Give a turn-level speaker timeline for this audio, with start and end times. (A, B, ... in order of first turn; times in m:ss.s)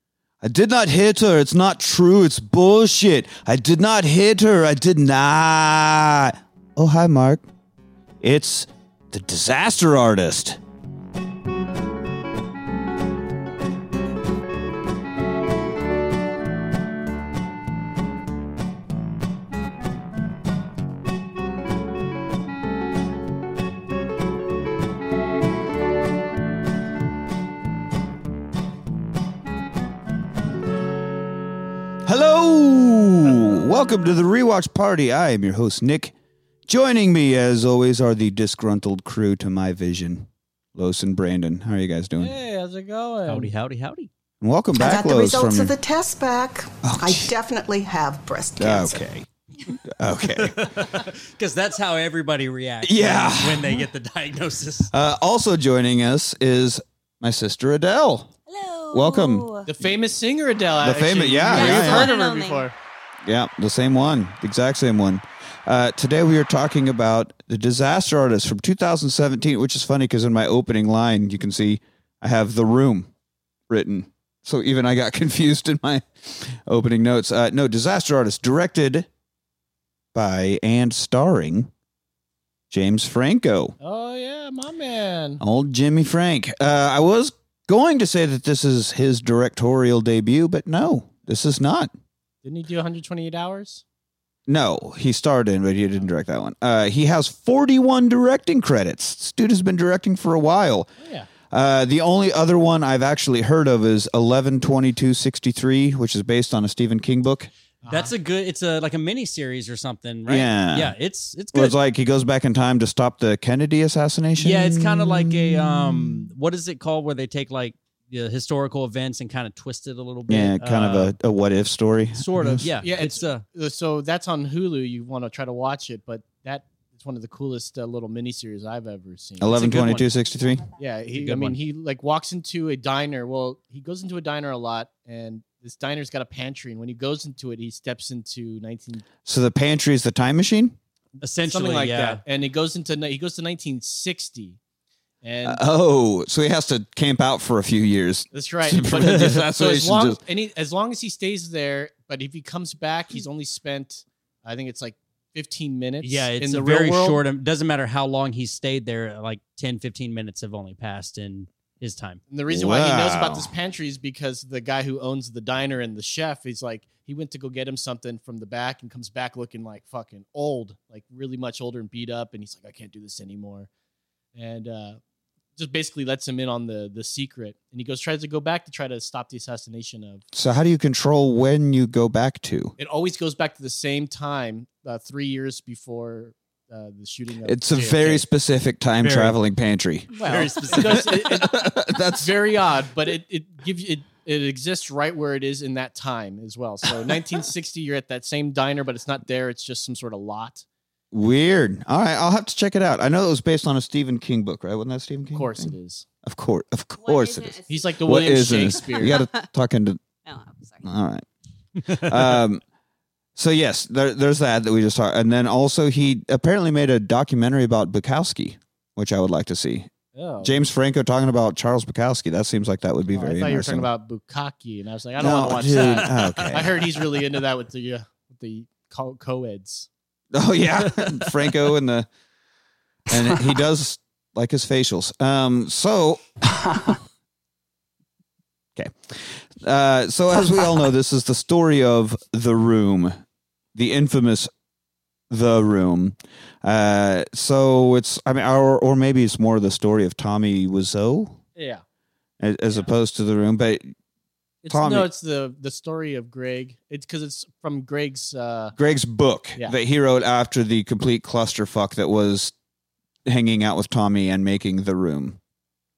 0:00.4-0:07.4 A
0:08.2-0:10.6 A
0:32.1-0:36.1 A
0:36.7-0:42.3 A
0:42.2-0:43.5 B
0:43.3-0:44.1 C
0:44.4-0:45.8 A
0:44.7-0:49.1 D
0:46.8-0:47.3 A
0:48.6-0:49.3 A
0:50.0-0:50.7 A
0:50.4-0:54.9 C
0:52.8-0:53.8 A
0:54.9-0:58.3 A
0:58.5-0:59.7 E
0:58.9-0:59.5 A
0:59.7-1:02.7 B
1:00.8-1:02.1 A
1:01.5-1:02.7 E
1:03.3-1:13.1 A
1:13.7-1:19.1 A
1:20.1-1:21.7 A
1:22.7-1:23.8 A
1:23.8-1:25.4 B
1:25.4-1:31.9 A
1:32.4-1:33.8 B
1:34.5-1:40.9 A
1:41.0-1:41.3 B
1:41.5-1:47.5 A
1:47.8-1:48.1 B
1:47.9-1:51.8 C
1:50.3-1:50.9 A
1:51.5-1:56.3 A
1:54.4-2:01.2 C
2:00.3-2:02.7 A
2:02.2-2:03.4 C
2:02.8-2:09.7 B
2:09.4-2:10.6 A
2:09.5-2:10.0 C
2:10.8-2:19.0 B
2:11.2-2:11.6 A
2:11.2-2:11.5 C
2:19.2-2:20.8 A
2:21.2-2:22.2 C
2:21.4-2:24.6 B
2:25.2-2:25.6 B
2:25.4-2:30.2 A
2:28.3-2:37.2 B
2:36.0-2:42.2 C
2:42.3-2:53.7 B
2:42.5-2:43.5 A
2:54.4-2:55.0 B
2:55.6-3:00.2 B
3:00.3-3:02.7 A
3:02.8-3:08.2 B
3:07.4-3:10.1 A
3:09.0-3:09.4 C
3:10.2-3:20.6 B
3:10.2-3:11.2 C
3:10.8-3:12.4 A
3:21.1-3:30.0 A
3:25.3-3:26.0 B
3:27.0-3:29.4 E
3:27.7-3:29.2 B
3:30.2-3:30.9 E
3:30.8-3:31.3 A
3:31.9-3:32.4 C
3:31.9-3:32.6 A
3:33.4-3:39.9 A
3:40.2-3:40.6 B
3:40.4-3:43.9 A
3:43.1-3:49.9 B
3:45.2-3:46.7 A
3:45.7-3:47.1 C
3:50.3-3:52.1 A
3:53.1-3:56.2 A
3:58.8-4:03.2 A
4:03.8-4:04.5 A
4:05.3-4:11.4 A
4:11.6-4:11.8 B
4:12.4-4:13.9 A
4:14.6-4:18.7 B
4:14.7-4:15.1 A
4:18.8-4:22.5 A
4:23.3-4:25.4 A